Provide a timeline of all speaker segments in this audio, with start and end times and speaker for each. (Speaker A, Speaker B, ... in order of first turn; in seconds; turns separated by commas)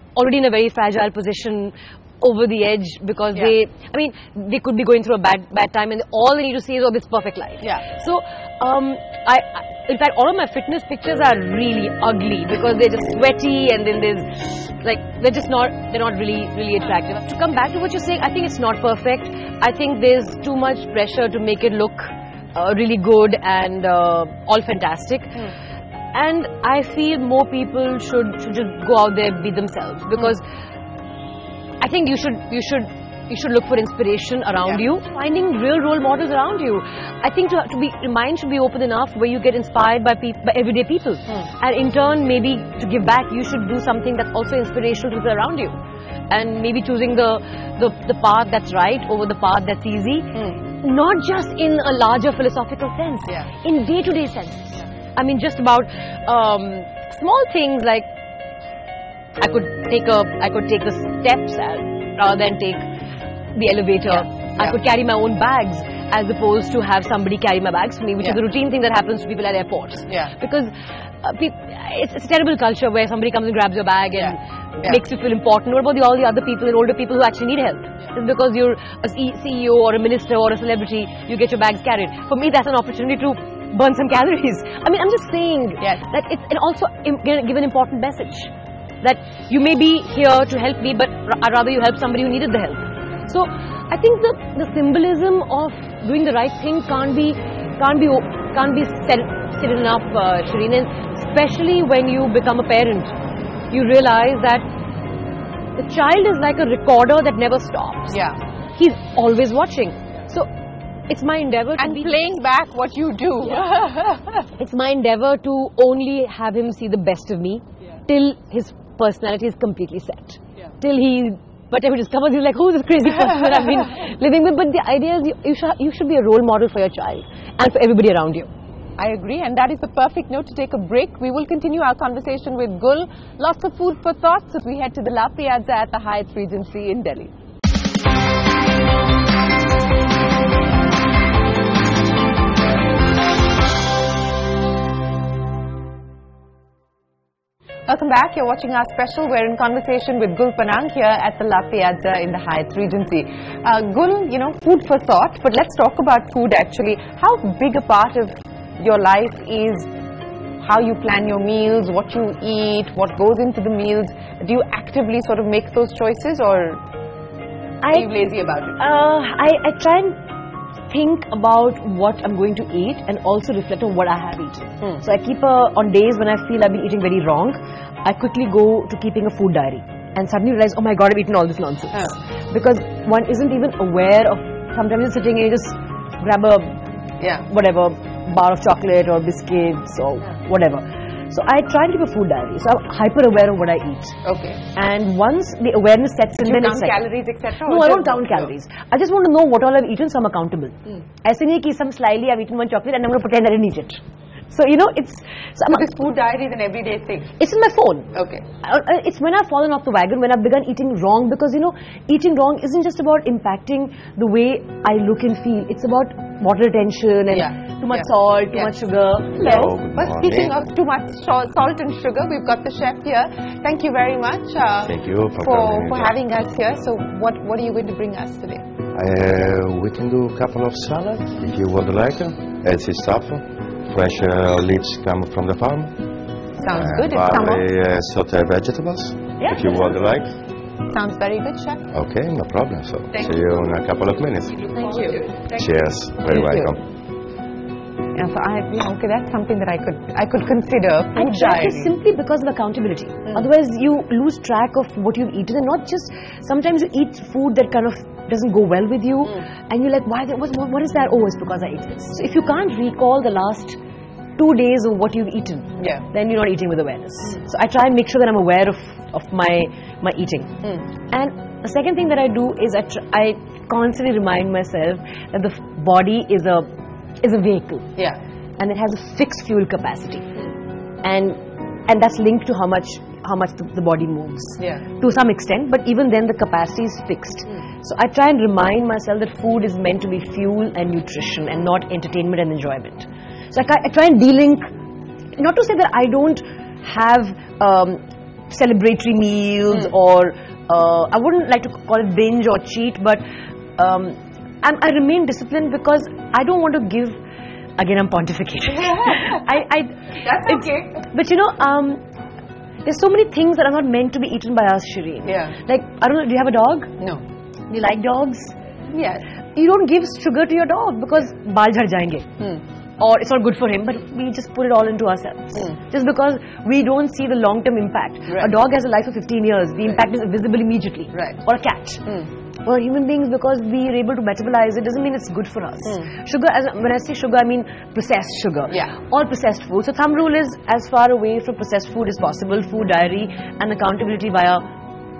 Speaker A: 0.1-25.5, Speaker A: 26.1-30.4, Speaker A: 31.8-45.8, Speaker A: 46.3-58.1, Speaker A: 59.4-62.9, Speaker A: 63.5-88.5, Speaker B: 64.2-64.8, Speaker B: 74.2-75.0, Speaker A: 89.0-103.1, Speaker A: 103.7-104.7, Speaker A: 105.8-110.5, Speaker B: 108.1-108.4, Speaker A: 111.1-112.2, Speaker B: 111.8-114.4, Speaker A: 114.5-128.5, Speaker B: 129.0-137.3, Speaker B: 147.9-159.9, Speaker B: 160.6-166.8, Speaker A: 167.8-168.1, Speaker B: 167.9-168.8, Speaker A: 168.8-170.2, Speaker A: 170.9-186.8, Speaker A: 187.5-194.2, Speaker B: 194.2-194.6, Speaker A: 194.8-197.0, Speaker B: 196.4-198.5, Speaker A: 197.7-205.9, Speaker B: 205.7-207.3, Speaker A: 207.4-219.4, Speaker B: 208.1-208.4, Speaker B: 217.3-218.7, Speaker B: 219.4-228.6, Speaker C: 219.4-220.5, Speaker C: 224.8-226.2, Speaker C: 228.9-236.0, Speaker B: 236.6-237.7, Speaker C: 236.7-240.4, Speaker A: 239.4-239.7, Speaker B: 240.9-241.9, Speaker C: 241.9-244.7, Speaker B: 244.7-245.6, Speaker C: 245.5-246.8, Speaker B: 246.3-246.7, Speaker B: 248.2-251.9, Speaker A: 251.2-263.8, Speaker A: 264.4-276.7, Speaker B: 265.8-266.0, Speaker A: 277.2-278.0, Speaker A: 278.6-280.5, Speaker A: 281.0-294.7, Speaker A: 295.4-303.2, Speaker A: 303.8-307.2, Speaker A: 307.8-312.0, Speaker B: 310.2-310.9, Speaker A: 312.9-316.9, Speaker B: 315.3-315.5, Speaker A: 317.7-318.6, Speaker B: 318.9-319.2, Speaker A: 319.5-322.3, Speaker A: 323.0-344.7